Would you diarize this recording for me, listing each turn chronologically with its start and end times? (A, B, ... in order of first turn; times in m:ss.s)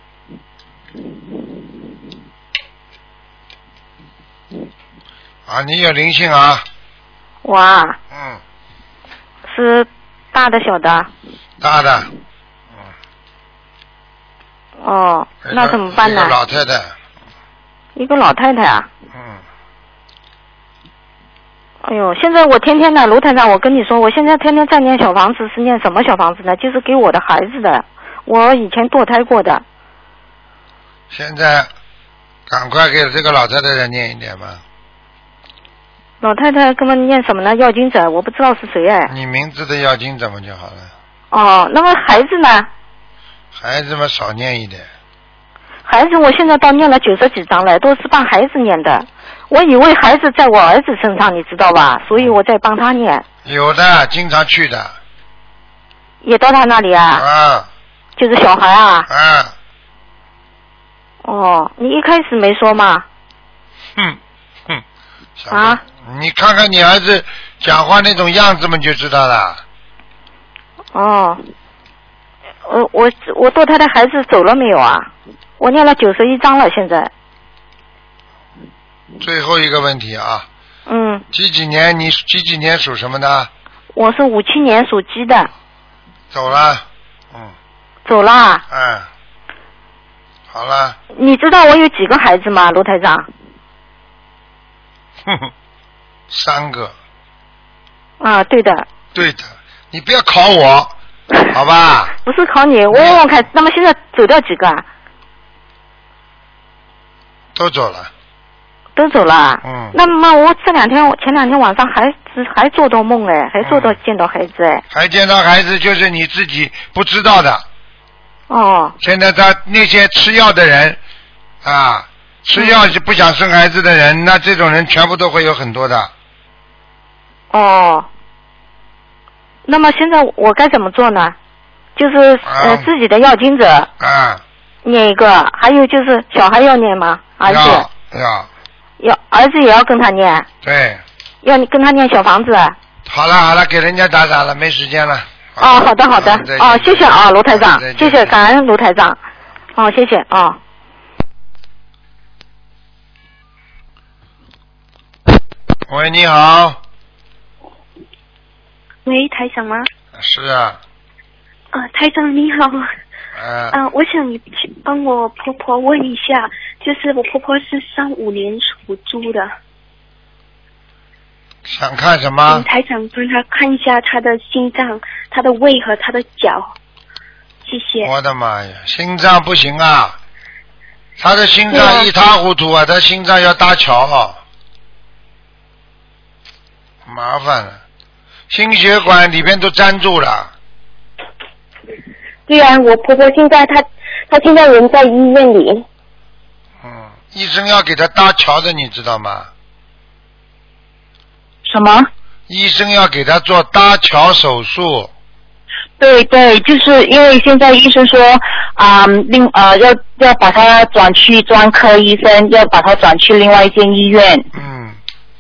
0:05.5-0:06.6 A
0:07.4-0:08.0 B
0:08.1-0:08.4 A
0:09.4-0:11.1 B
0:11.6-0:12.1 A
0:14.8-0:16.4 B
0:15.4-0:16.9 A
0:18.0-0:18.9 B
0:19.1-0:19.4 A
0:21.8-0:29.6 B
0:31.1-0:31.7 A
0:32.5-0:34.6 A
0:36.2-0:39.1 B
0:39.1-0:40.9 A
0:41.3-0:42.7 B
0:43.6-0:44.9 A
0:45.8-0:53.2 B
0:52.1-0:52.4 A
0:53.4-0:55.0 A
0:56.2-0:57.2 B
0:57.2-0:57.7 A
0:58.2-0:59.1 B
0:59.1-0:59.5 A
1:01.2-1:03.0 B
1:04.0-1:04.8 A
1:05.4-1:09.6 A
1:05.5-1:05.8 B
1:10.9-1:11.4 B
1:12.6-1:17.1 B
1:19.2-1:20.5 A
1:20.9-1:21.3 B
1:21.3-1:23.5 A
1:23.9-1:25.5 B
1:26.3-1:27.5 A
1:28.0-1:28.6 B
1:28.7-1:29.1 A
1:30.5-1:31.0 A
1:31.1-1:33.3 B
1:35.3-1:35.5 A
1:36.3-1:36.9 A
1:38.2-1:38.9 B
1:39.1-1:40.9 A
1:41.5-1:42.2 A
1:42.2-1:44.8 B
1:42.9-1:43.4 A
1:47.6-1:48.1 A
1:49.0-1:54.8 B
1:49.6-1:50.0 A
1:53.6-1:54.0 A
1:54.9-1:57.6 A
1:58.5-1:59.0 B
1:59.0-2:01.0 A
2:01.6-2:06.1 A
2:02.6-2:02.8 B
2:07.5-2:08.1 B
2:09.7-2:11.4 B
2:12.0-2:13.9 B
2:12.4-2:12.9 A
2:14.0-2:14.4 A
2:14.8-2:17.9 B
2:17.4-2:18.5 A
2:19.0-2:20.5 B
2:20.6-2:21.0 A
2:21.4-2:22.8 B
2:23.0-2:28.3 A
2:25.6-2:29.2 B
2:29.8-2:30.6 B
2:35.9-2:36.8 A
2:39.0-2:39.9 C
2:40.2-2:40.8 A
2:41.7-2:42.9 C
2:43.4-2:43.8 A
2:43.7-2:49.5 C
2:51.6-2:52.6 A
2:52.5-2:56.7 C
2:57.7-2:58.1 C
2:58.0-3:00.2 A
3:01.2-3:04.4 A
3:07.1-3:07.8 A
3:08.5-3:10.5 A
3:12.5-3:15.8 D
3:16.8-3:19.5 A
3:21.7-3:22.1 E
3:22.5-3:25.1 A
3:26.0-3:34.5 E
3:34.5-3:35.0 A